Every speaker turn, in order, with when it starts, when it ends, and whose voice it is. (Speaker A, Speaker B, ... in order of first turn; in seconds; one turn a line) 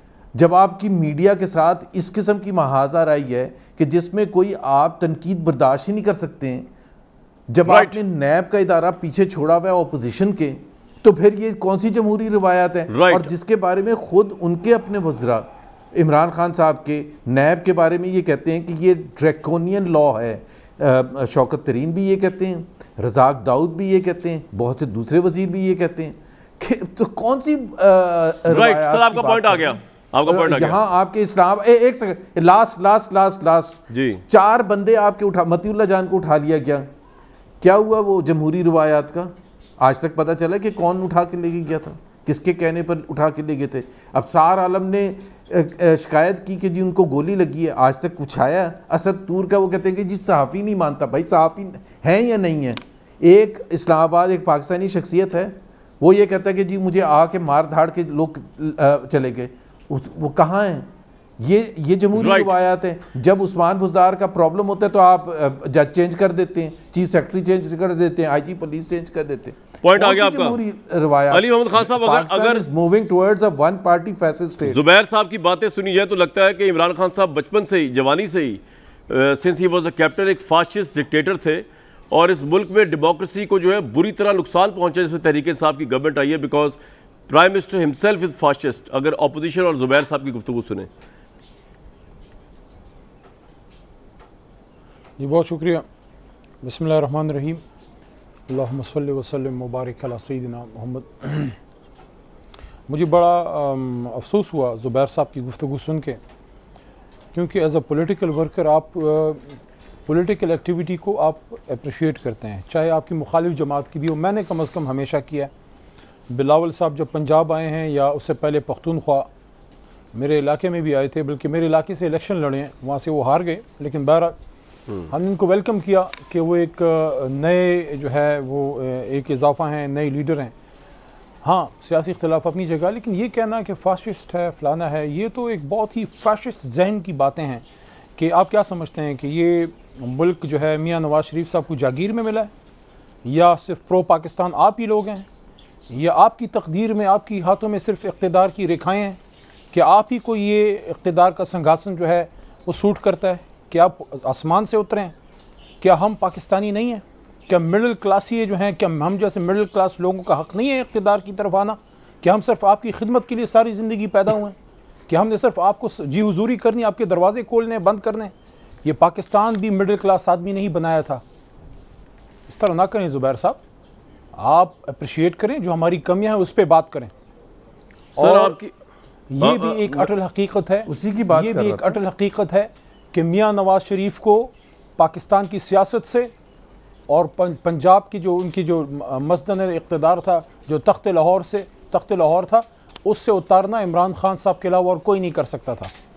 Speaker A: 0.4-6.7
Speaker A: 7.5-36.9
Speaker B: 7.7-8.0
Speaker B: 12.9-13.3
Speaker B: 28.5-30.8
Speaker B: 33.9-34.2
Speaker A: 37.6-74.8
Speaker B: 62.2-62.5
Speaker B: 69.8-70.6
Speaker B: 71.3-72.6
Speaker B: 74.7-86.8
Speaker B: 87.3-90.9
Speaker C: 95.2-95.8
Speaker C: 96.6-97.6
Speaker C: 98.5-101.6
Speaker C: 102.9-106.2
Speaker C: 107.3-109.5
Speaker C: 110.1-115.5
Speaker C: 116.3-119.3
Speaker C: 120.1-124.4
Speaker C: 125.1-130.5
Speaker C: 131.4-137.7
Speaker C: 138.2-142.5
Speaker C: 143.2-145.3
Speaker C: 145.9-149.2
Speaker C: 149.7-155.2
Speaker C: 155.8-164.6
Speaker C: 165.1-168.3
Speaker C: 168.8-171.2
Speaker C: 172.5-173.6
Speaker C: 174.3-177.1
Speaker B: 178.2-178.7
Speaker C: 178.2-178.6
Speaker C: 179.3-186.3
Speaker B: 179.4-180.1
Speaker A: 180.8-182.0
Speaker C: 187.1-195.9